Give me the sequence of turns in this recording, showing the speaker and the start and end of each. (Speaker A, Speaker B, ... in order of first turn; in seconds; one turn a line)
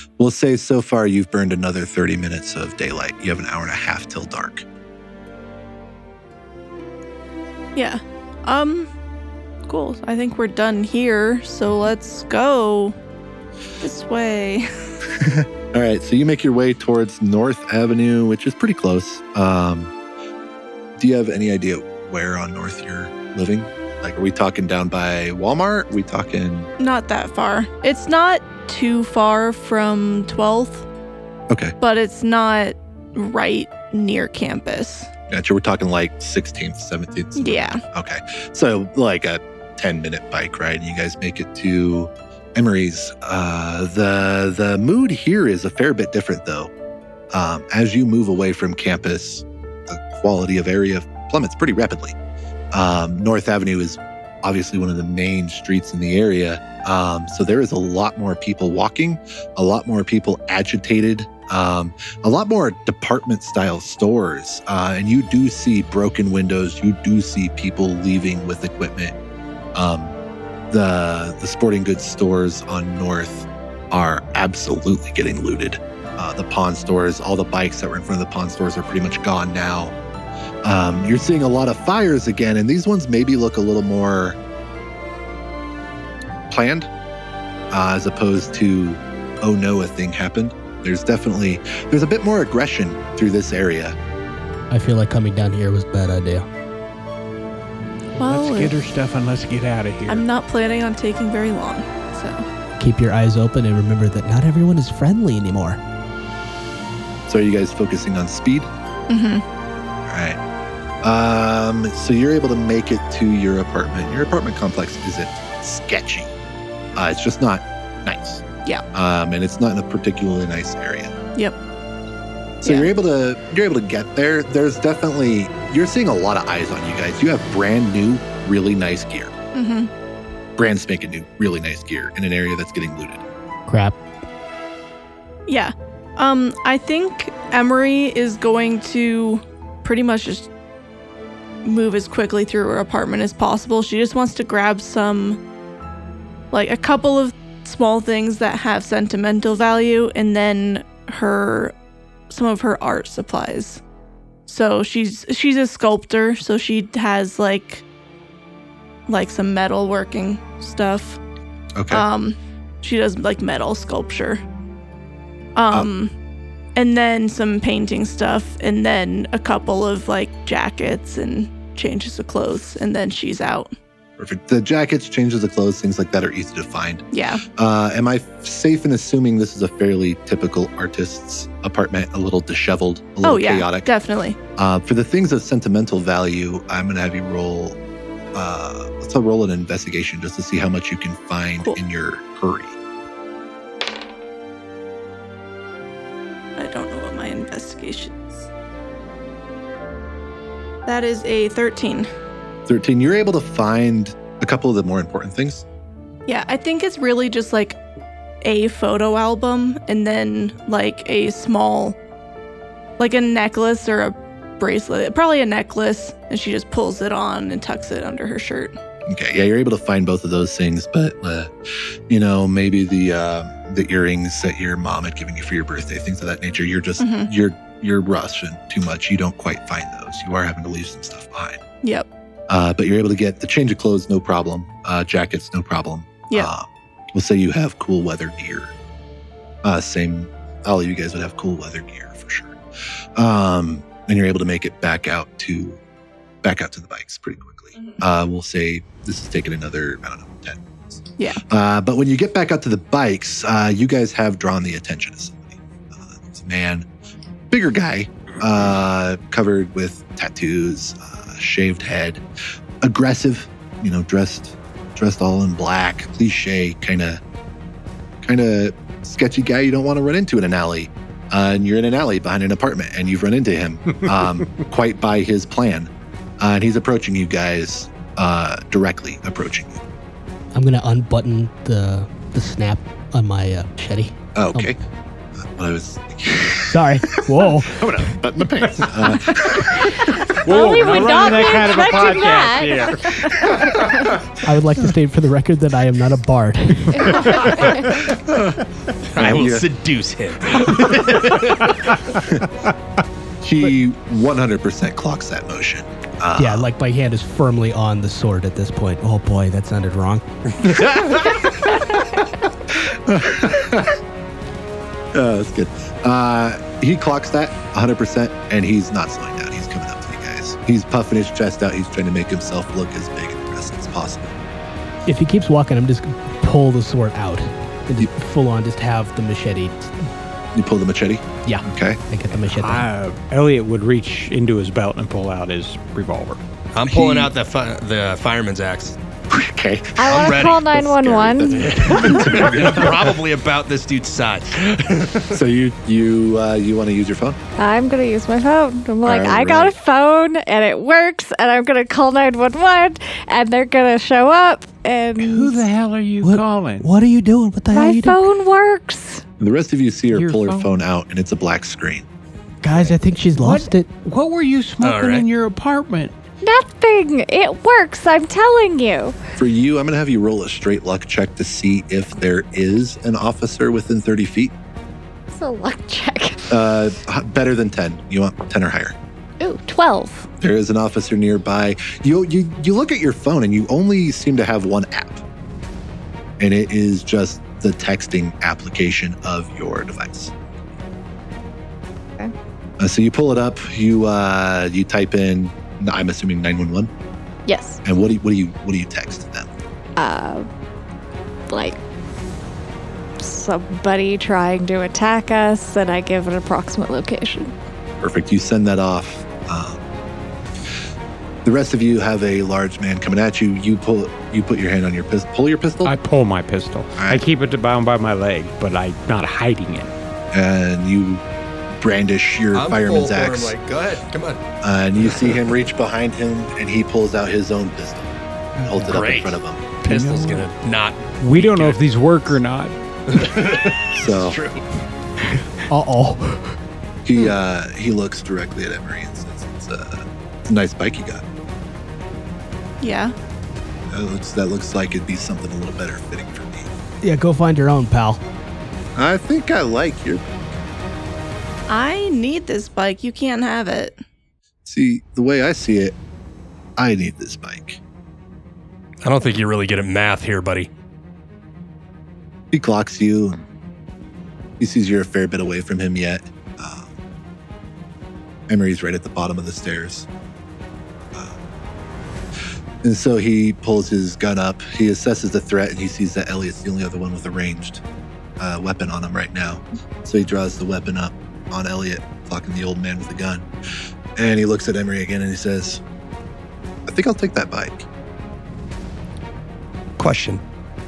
Speaker A: 0.2-4.6
Speaker B: 7.8-8.9
Speaker B: 9.7-12.9
Speaker B: 13.8-14.7
Speaker A: 15.1-19.9
Speaker A: 21.0-26.7
Speaker B: 26.8-30.8
Speaker A: 31.5-31.7
Speaker B: 31.8-35.1
Speaker A: 35.3-46.7
Speaker B: 37.4-37.8
Speaker A: 47.3-52.1
Speaker A: 52.7-69.1
Speaker A: 69.7-70.2
Speaker A: 70.7-79.9
Speaker A: 80.6-84.4
Speaker A: 86.5-86.9
Speaker A: 87.7-94.0
Speaker C: 94.7-96.5
Speaker D: 98.2-100.2
Speaker B: 98.2-98.8
Speaker B: 100.1-102.4
Speaker C: 102.8-105.8
Speaker A: 107.3-108.7
Speaker B: 109.1-109.4
Speaker A: 110.1-110.4
Speaker A: 111.0-116.3
Speaker A: 117.0-121.1
Speaker A: 122.6-129.3
Speaker B: 122.6-122.9
Speaker B: 129.5-129.9
Speaker A: 130.6-133.2
Speaker C: 133.7-134.0
Speaker B: 135.5-140.5
Speaker B: 141.6-145.4
Speaker B: 146.5-151.7
Speaker B: 152.3-153.8
Speaker B: 154.5-157.8
Speaker B: 159.1-161.2
Speaker A: 161.8-162.0
Speaker B: 161.9-164.4
Speaker B: 165.6-166.1
Speaker B: 166.7-173.7
Speaker A: 174.2-177.0
Speaker B: 177.1-177.4
Speaker A: 177.6-183.9
Speaker B: 183.2-184.4
Speaker A: 184.6-187.8
Speaker A: 188.3-192.8
Speaker B: 196.6-198.4
Speaker B: 200.8-202.1
Speaker A: 202.7-205.6
Speaker B: 206.3-207.8
Speaker B: 208.4-212.0
Speaker B: 213.0-218.7
Speaker A: 219.1-221.5
Speaker A: 222.1-231.6
Speaker B: 227.0-227.3
Speaker B: 231.8-232.1
Speaker A: 232.5-238.7
Speaker A: 239.6-242.6
Speaker A: 243.2-245.8
Speaker A: 246.4-256.9
Speaker A: 257.5-262.2
Speaker A: 262.8-267.2
Speaker A: 268.2-279.8
Speaker C: 280.5-284.7
Speaker A: 284.3-284.8
Speaker A: 285.3-290.3
Speaker C: 286.6-287.9
Speaker E: 289.8-294.0
Speaker D: 290.4-293.4
Speaker A: 293.3-294.3
Speaker C: 294.4-297.5
Speaker E: 297.1-297.8
Speaker A: 297.9-298.6
Speaker F: 299.1-301.9
Speaker A: 299.2-299.7
Speaker A: 303.4-306.7
Speaker C: 306.4-310.2
Speaker F: 310.7-311.3
Speaker A: 310.8-314.0
Speaker A: 315.1-324.4
Speaker C: 325.1-330.1
Speaker A: 330.5-332.0
Speaker C: 331.4-332.9
Speaker D: 332.3-336.4
Speaker F: 336.7-338.9
Speaker A: 336.9-337.3
Speaker A: 339.3-343.2
Speaker E: 340.0-342.4
Speaker F: 340.0-340.6
Speaker F: 341.6-345.4
Speaker A: 345.2-347.4
Speaker E: 347.6-355.6
Speaker A: 349.0-349.7
Speaker D: 355.2-356.9
Speaker C: 356.2-358.2
Speaker E: 357.7-359.2
Speaker A: 359.4-362.1
Speaker D: 360.1-360.7
Speaker C: 362.6-363.9
Speaker D: 363.4-366.1
Speaker F: 364.8-365.3
Speaker E: 366.4-369.1
Speaker A: 369.4-374.5
Speaker E: 375.3-376.5
Speaker A: 376.5-378.9
Speaker E: 379.4-380.3
Speaker A: 380.4-385.2
Speaker A: 386.4-390.3
Speaker A: 392.8-396.9
Speaker E: 397.4-397.8
Speaker A: 397.8-399.5
Speaker E: 400.0-400.5
Speaker E: 401.5-401.8
Speaker E: 403.2-407.5
Speaker A: 408.0-409.8
Speaker A: 411.4-415.9
Speaker D: 415.8-419.9
Speaker A: 416.9-417.2
Speaker A: 420.3-421.2
Speaker A: 421.8-423.5
Speaker F: 422.5-424.4
Speaker A: 424.6-429.6
Speaker D: 428.6-428.9
Speaker F: 428.9-431.8
Speaker D: 429.9-430.5
Speaker D: 431.2-432.7
Speaker F: 433.1-434.6
Speaker A: 433.9-434.4
Speaker C: 435.7-436.6
Speaker A: 437.0-441.2
Speaker B: 442.8-443.1
Speaker A: 443.9-446.7
Speaker C: 447.0-448.2
Speaker A: 448.9-450.4
Speaker B: 451.7-454.0
Speaker A: 454.6-455.9
Speaker A: 456.8-457.8
Speaker F: 459.0-460.7
Speaker A: 462.5-463.4
Speaker A: 464.6-466.9
Speaker A: 468.5-470.1
Speaker A: 471.1-471.4
Speaker A: 472.8-477.8
Speaker A: 478.4-483.5
Speaker A: 484.2-485.8
Speaker A: 486.9-487.9
Speaker F: 490.0-490.4